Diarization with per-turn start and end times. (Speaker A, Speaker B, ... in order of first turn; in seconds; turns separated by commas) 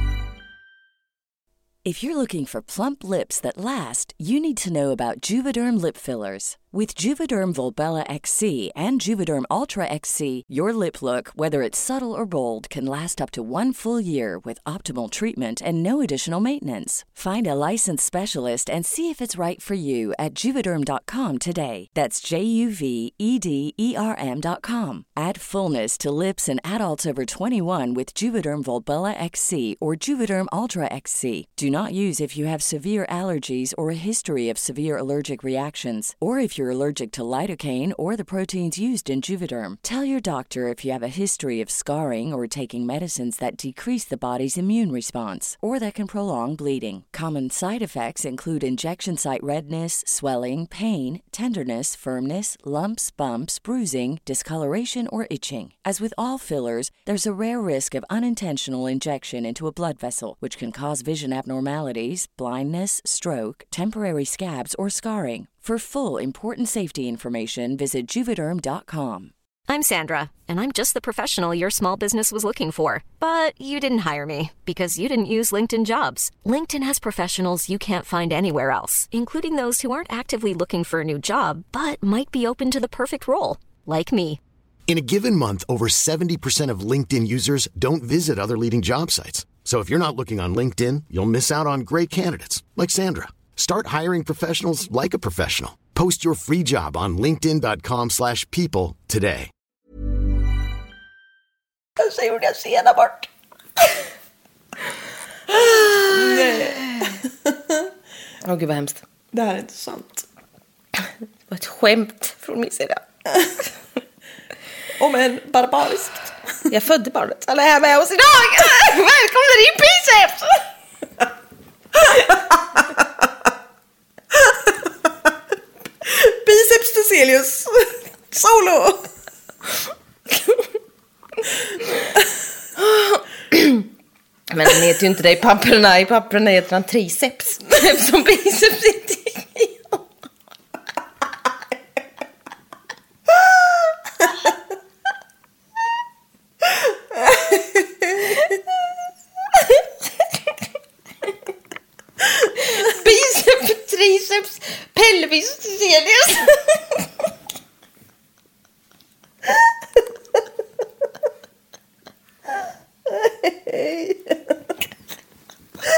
Speaker A: 1.8-69.3, Speaker B: 69.7-84.4, Speaker C: 84.9-99.5, Speaker D: 102.0-103.3, Speaker D: 105.5-107.0, Speaker E: 105.6-107.9, Speaker D: 108.4-109.0, Speaker E: 109.3-110.2, Speaker D: 111.5-113.0, Speaker E: 115.0-116.3, Speaker D: 116.7-120.6, Speaker E: 126.0-129.1, Speaker D: 132.8-133.9, Speaker D: 134.5-140.0, Speaker D: 152.5-156.9, Speaker E: 163.3-164.1